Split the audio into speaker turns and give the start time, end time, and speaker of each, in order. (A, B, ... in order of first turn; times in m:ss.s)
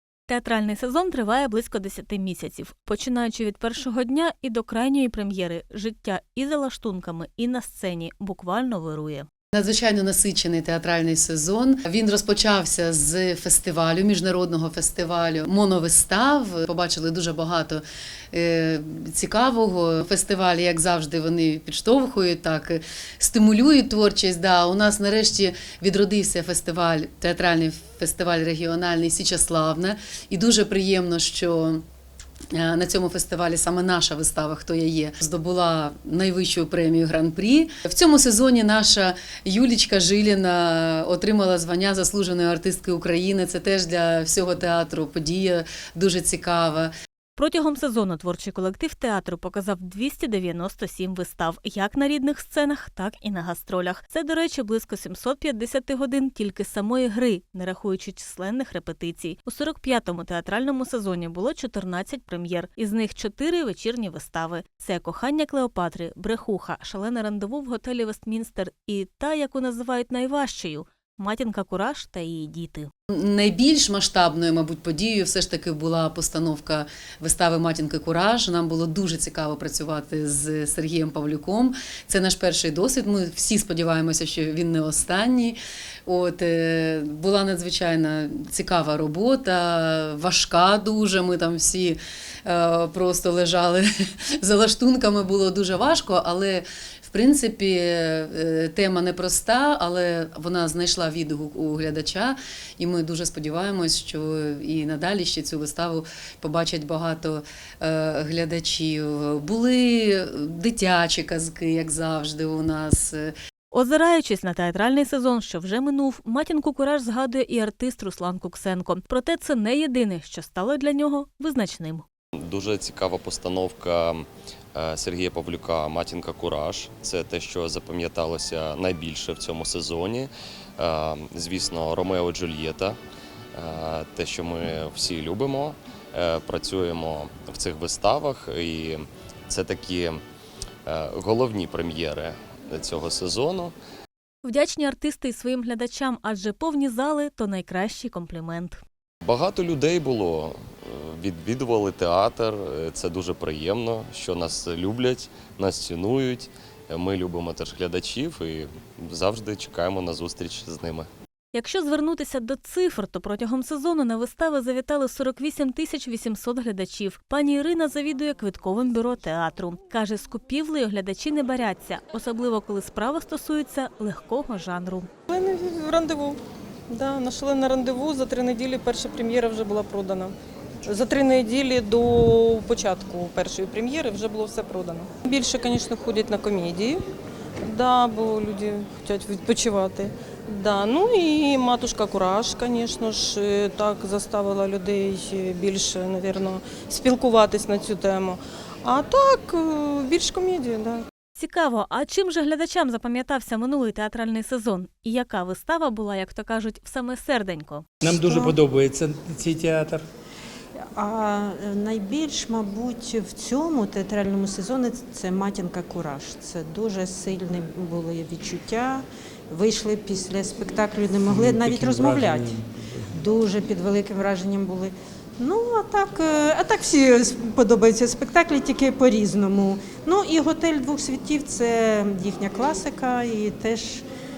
0:00.3-0:09.3 A
0:09.5-0:31.8 B
0:32.5-0:46.9 B
0:47.4-1:12.9 A
1:13.2-1:33.8 B
1:34.4-1:53.3 B
1:53.7-2:02.0 A
2:02.4-2:13.0 C
2:13.6-2:20.2 C
2:20.8-2:23.7 C
2:24.4-2:28.8 A
2:29.2-2:41.1 C
2:41.5-2:55.1 A
2:55.3-2:56.4 D
2:56.9-3:00.3 D
3:00.8-3:07.0 D
3:07.6-3:21.0 D
3:21.4-3:27.8 A
3:28.0-3:30.0 E
3:28.1-3:28.6 F
3:30.8-3:54.0 F
3:41.3-3:42.7 E